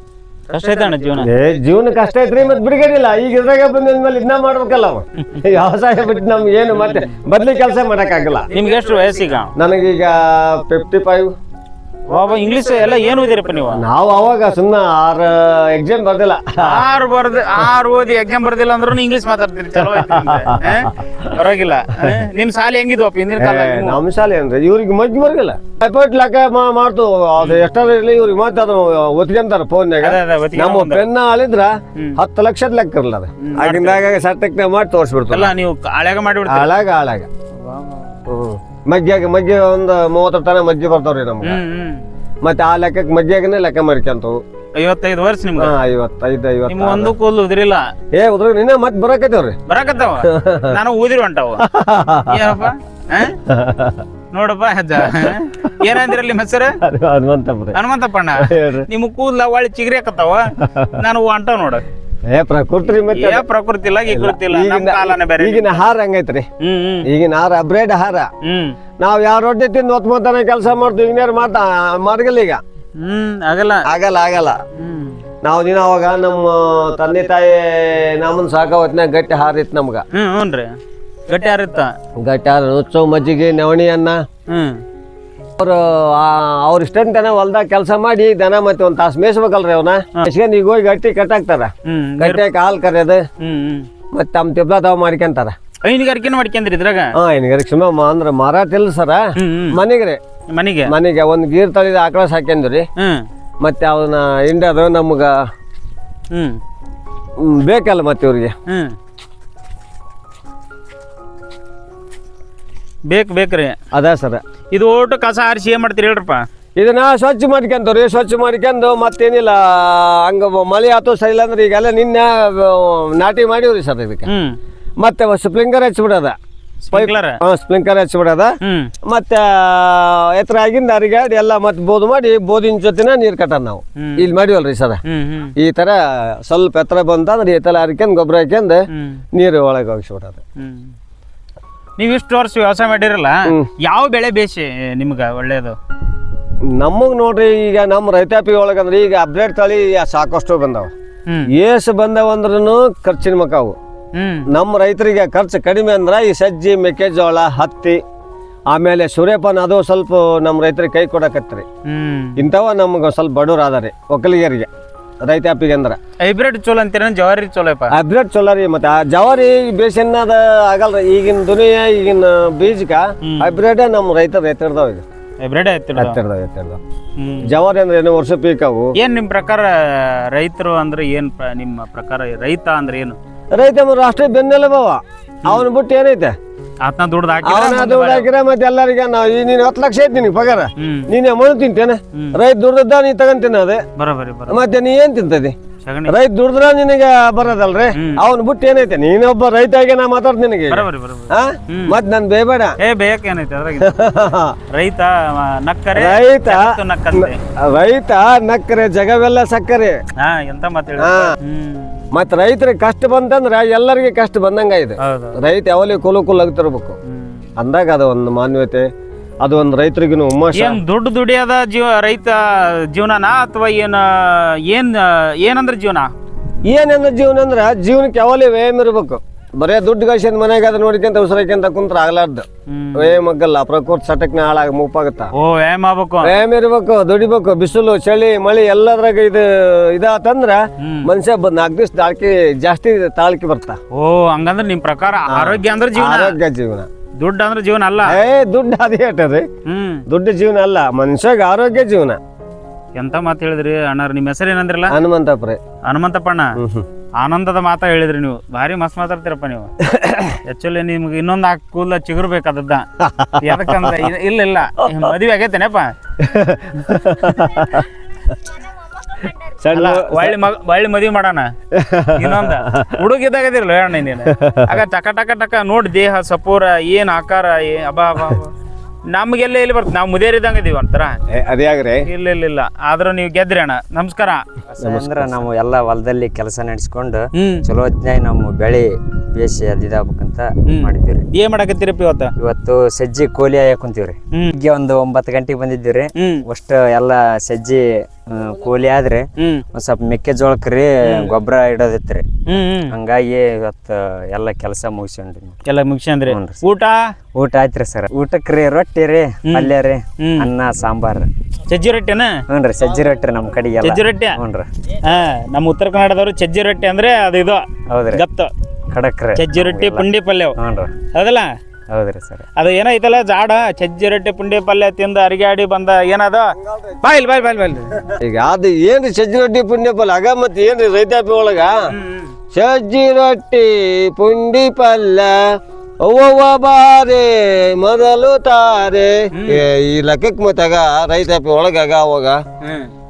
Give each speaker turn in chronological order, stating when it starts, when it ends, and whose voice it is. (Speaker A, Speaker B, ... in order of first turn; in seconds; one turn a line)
Speaker A: 0.5-1.3
Speaker B: 1.2-8.5
Speaker A: 6.8-7.0
Speaker A: 8.5-9.5
Speaker B: 9.6-11.3
Speaker A: 12.1-13.8
Speaker B: 13.7-16.8
Speaker A: 16.6-24.0
Speaker B: 19.8-21.3
Speaker B: 23.4-35.5
Speaker A: 27.4-27.6
Speaker A: 30.0-31.1
Speaker A: 33.4-34.0
Speaker A: 35.3-36.7
Speaker B: 36.5-37.3
Speaker A: 37.6-38.0
Speaker B: 38.2-41.6
Speaker A: 41.4-42.0
Speaker B: 42.4-44.4
Speaker A: 44.8-45.7
Speaker B: 45.6-47.1
Speaker A: 46.7-47.8
Speaker B: 48.1-49.6
Speaker A: 49.7-51.6
Speaker B: 50.2-50.8
Speaker B: 51.6-52.6
Speaker A: 52.3-53.4
Speaker B: 53.5-54.0
Speaker A: 54.3-56.8
Speaker B: 55.1-56.0
Speaker B: 56.8-57.8
Speaker A: 57.7-61.8
Speaker B: 58.4-58.9
Speaker B: 60.6-60.9
Speaker B: 62.3-63.4
Speaker A: 63.0-65.7
Speaker B: 64.1-66.5
Speaker A: 66.6-67.1
Speaker B: 67.0-68.3
Speaker A: 68.4-68.8
Speaker B: 69.0-72.6
Speaker A: 73.0-73.8
Speaker B: 73.8-74.6
Speaker A: 74.8-75.2
Speaker B: 75.4-80.0
Speaker A: 80.1-80.7
Speaker A: 81.3-81.9
Speaker B: 82.2-84.2
Speaker A: 84.5-84.8
Speaker B: 85.6-93.2
Speaker A: 91.8-92.4
Speaker A: 93.4-93.9
Speaker B: 94.1-95.5
Speaker A: 95.8-97.1
Speaker B: 97.2-100.2
Speaker A: 99.4-99.8
Speaker A: 100.5-100.9
Speaker B: 100.9-102.9
Speaker A: 103.0-103.2
Speaker B: 103.6-105.3
Speaker A: 106.3-106.6
Speaker B: 107.4-108.5
Speaker A: 108.7-108.9
Speaker A: 113.1-113.7
Speaker B: 113.9-114.4
Speaker A: 114.7-116.4
Speaker B: 116.8-124.3
Speaker A: 124.3-124.5
Speaker B: 125.0-126.3
Speaker A: 126.8-127.4
Speaker B: 126.9-135.0
Speaker A: 128.6-128.9
Speaker A: 134.0-134.2
Speaker A: 135.1-135.5
Speaker B: 135.6-138.8
Speaker A: 138.9-139.2
Speaker B: 139.3-140.4
Speaker A: 140.6-140.9
Speaker A: 142.0-145.8
Speaker B: 146.7-150.9
Speaker B: 151.5-153.8
Speaker A: 154.1-154.5
Speaker B: 154.5-158.0
Speaker B: 158.7-161.6
Speaker A: 161.8-162.4
Speaker B: 162.4-164.7
Speaker B: 165.2-166.0
Speaker A: 166.2-167.9
Speaker B: 167.9-175.0
Speaker A: 173.2-173.5
Speaker A: 175.4-176.2
Speaker B: 175.9-176.8
Speaker A: 177.2-177.5
Speaker B: 177.4-178.9
Speaker A: 179.0-183.2
Speaker B: 183.5-186.3
Speaker A: 186.8-188.3
Speaker B: 187.4-193.8
Speaker A: 190.8-191.1
Speaker A: 194.0-194.6
Speaker B: 194.5-195.5
Speaker A: 195.8-196.2
Speaker B: 196.1-202.8
Speaker A: 197.9-198.2
Speaker A: 200.7-201.9
Speaker A: 202.8-203.9
Speaker B: 203.8-204.6
Speaker A: 204.7-207.4
Speaker B: 205.9-210.0
Speaker A: 210.2-212.0
Speaker B: 211.0-211.3
Speaker B: 212.1-216.9
Speaker A: 215.0-215.3
Speaker A: 217.1-217.4
Speaker B: 217.6-218.8
Speaker B: 219.4-220.8
Speaker A: 220.5-226.1
Speaker B: 226.6-235.3
Speaker A: 232.7-233.2
Speaker A: 235.3-236.3
Speaker B: 236.2-243.8
Speaker A: 240.8-241.1
Speaker A: 243.9-246.3
Speaker B: 245.3-246.9
Speaker A: 247.2-248.2
Speaker B: 248.0-249.5
Speaker A: 249.7-250.0
Speaker B: 250.1-252.2
Speaker A: 252.9-254.9
Speaker B: 254.9-255.6
Speaker A: 255.8-256.5
Speaker B: 256.6-256.8
Speaker A: 257.2-259.7
Speaker B: 259.8-260.4
Speaker A: 260.3-262.9
Speaker B: 263.0-264.0
Speaker A: 263.4-265.9
Speaker B: 266.2-267.9
Speaker B: 269.4-270.4
Speaker A: 269.7-271.5
Speaker B: 271.7-272.9
Speaker A: 272.1-278.5
Speaker B: 274.2-274.6
Speaker A: 279.1-281.2
Speaker B: 281.3-282.1
Speaker A: 282.1-284.4
Speaker C: 284.7-291.3
Speaker B: 284.8-285.4
Speaker A: 287.3-287.6
Speaker A: 290.6-292.3
Speaker C: 292.4-302.2
Speaker A: 296.1-296.4
Speaker A: 299.4-299.6
Speaker A: 301.1-301.3
Speaker A: 302.4-302.9
Speaker C: 302.9-305.6
Speaker A: 305.6-307.0
Speaker C: 306.3-306.6
Speaker C: 307.3-311.3
Speaker A: 309.4-310.5
Speaker A: 311.7-312.4
Speaker C: 312.5-314.7
Speaker A: 313.8-314.4
Speaker A: 315.0-318.5
Speaker C: 317.9-318.2
Speaker C: 318.9-320.9
Speaker A: 319.3-320.6
Speaker A: 321.1-321.5
Speaker C: 321.9-322.4
Speaker A: 322.6-327.9
Speaker B: 328.2-331.8
Speaker A: 331.9-332.3
Speaker B: 332.5-335.4
Speaker B: 336.0-342.4
Speaker A: 339.3-339.6
Speaker A: 342.6-342.9